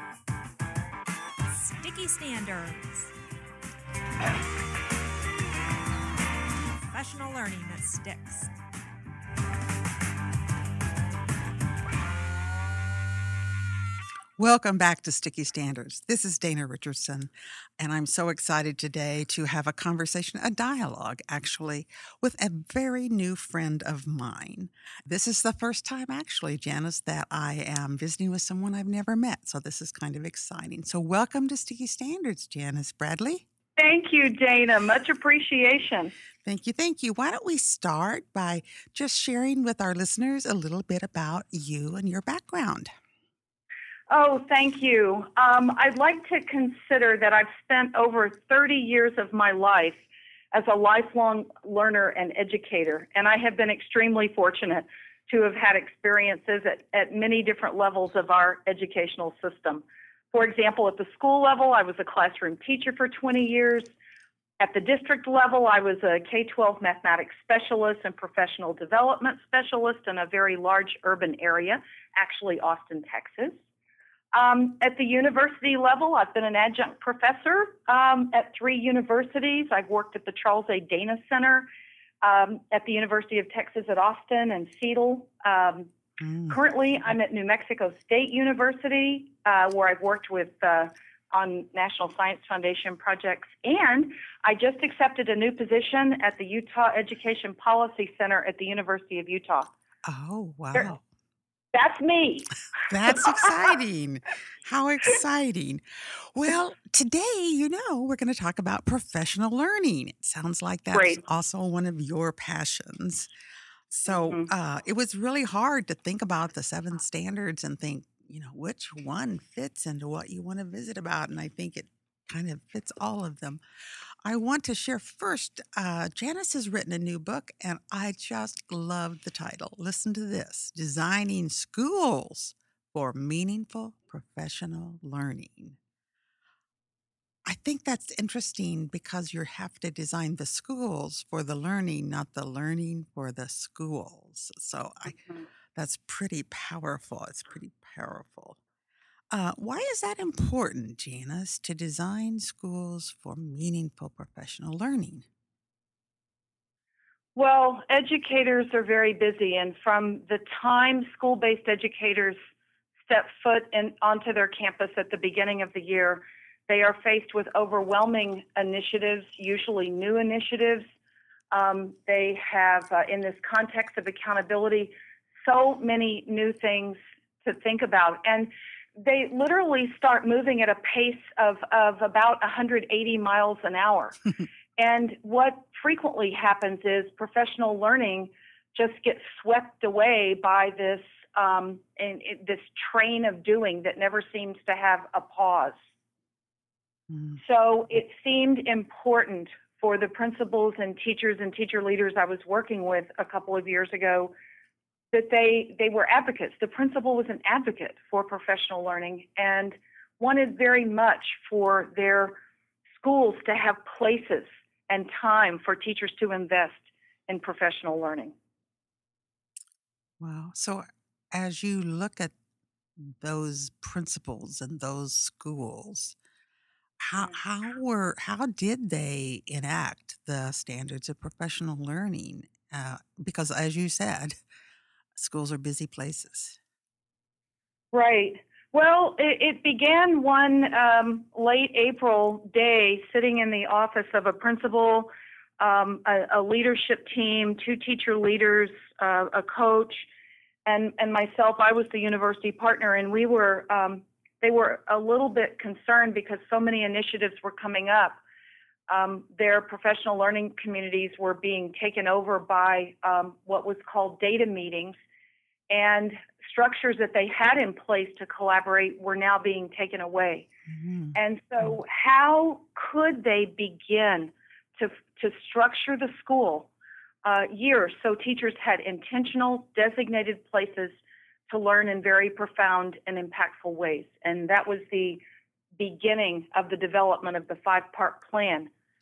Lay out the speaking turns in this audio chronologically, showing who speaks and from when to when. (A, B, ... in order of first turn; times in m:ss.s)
0:01.5-0:03.1 A
0:06.9-0:08.5 A
0:14.4-0:33.4 B
0:33.8-0:36.1 C
0:36.4-0:42.9 B
0:44.1-0:50.0 C
0:50.5-1:03.8 C
1:04.6-1:13.6 C
1:14.3-1:21.7 C
1:22.2-1:25.9 C
1:26.2-1:26.6 B
1:26.5-1:39.7 C
1:40.0-1:41.0 B
1:41.7-1:42.5 C
1:42.9-1:53.3 B
1:43.1-1:43.5 C
1:50.9-1:51.2 C
1:53.9-2:03.6 B
1:54.1-1:54.5 C
2:04.2-2:15.8 B
2:17.4-2:28.6 B
2:29.3-2:35.2 B
2:37.3-2:42.4 C
2:43.1-2:50.8 C
2:51.5-3:04.2 C
3:04.8-3:15.8 C
3:17.1-3:17.4 B
3:17.4-3:24.3 C
3:25.1-3:32.4 C
3:33.0-3:38.3 C
3:40.2-3:42.3 B
3:43.0-3:46.2 B
3:47.0-3:54.4 B
3:55.1-3:56.6 B
3:57.9-4:10.1 C
4:10.6-4:18.2 C
4:18.9-4:25.0 C
4:25.7-4:30.5 C
4:30.7-4:31.2 B
4:31.1-4:36.7 C
4:37.2-4:41.0 C
4:41.5-4:45.2 C
4:45.8-4:48.7 C